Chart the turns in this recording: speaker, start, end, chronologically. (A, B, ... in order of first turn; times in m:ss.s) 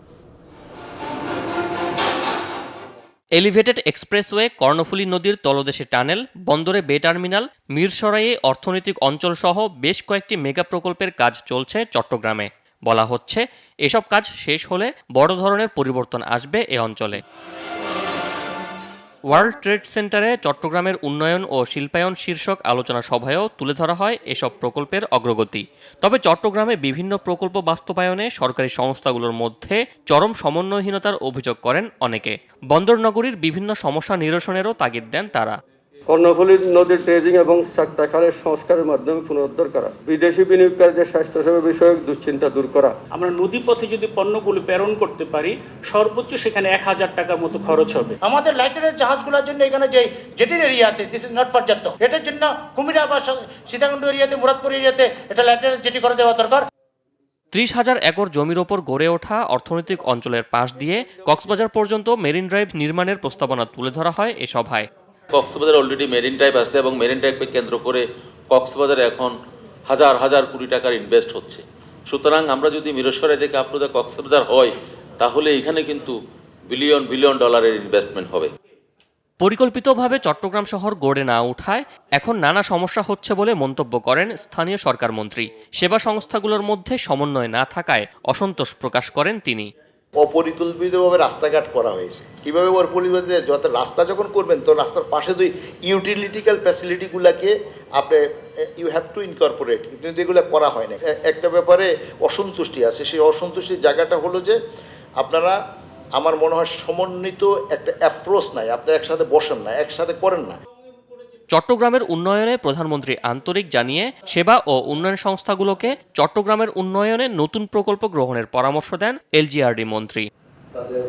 0:03.4-0:17.2 A
0:19.3-0:35.6 A
0:36.1-0:43.0 B
0:43.1-0:48.2 C
0:48.2-0:56.6 D
0:57.5-1:04.9 A
1:05.3-1:09.3 E
1:09.9-1:16.2 E
1:16.7-1:18.5 E
1:19.4-1:29.7 A
1:30.2-1:44.6 F
1:45.2-1:45.6 F
1:46.2-1:50.6 F
1:51.5-2:00.3 A